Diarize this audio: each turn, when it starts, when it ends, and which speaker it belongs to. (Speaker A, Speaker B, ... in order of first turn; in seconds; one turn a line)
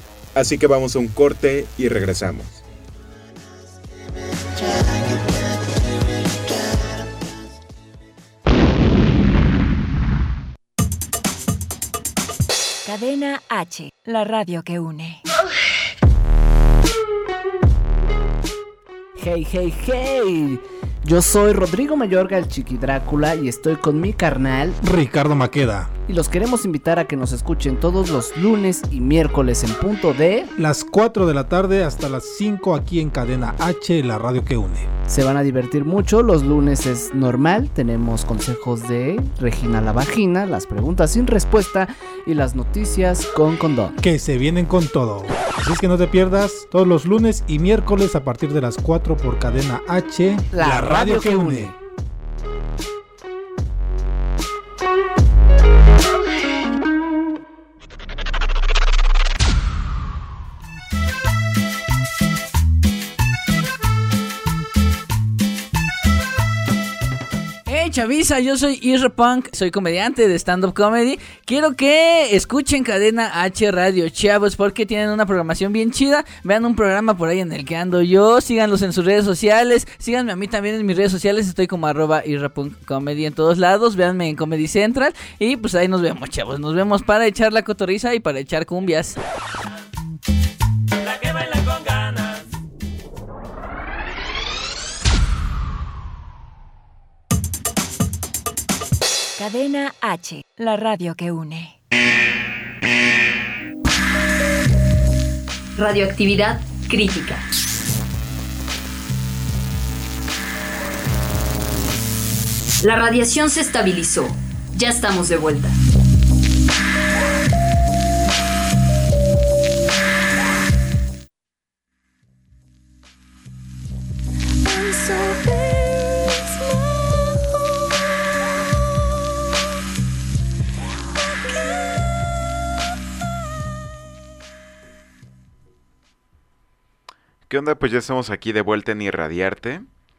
Speaker A: 0.3-2.6
Speaker B: 12.8-15.2
Speaker C: 19.1-24.8
Speaker D: 24.8-25.9
Speaker C: 26.1-30.5
Speaker D: 30.5-34.9
Speaker C: 35.1-43.9
Speaker D: 44.0-51.7
Speaker C: 50.5-51.7
Speaker E: 67.7-89.2
Speaker E: 91.4-91.9
Speaker B: 99.4-101.8
Speaker F: 105.8-107.4
Speaker F: 112.8-115.8
Speaker F: 124.6-127.3
Speaker F: 131.4-132.0
Speaker G: 137.5-139.8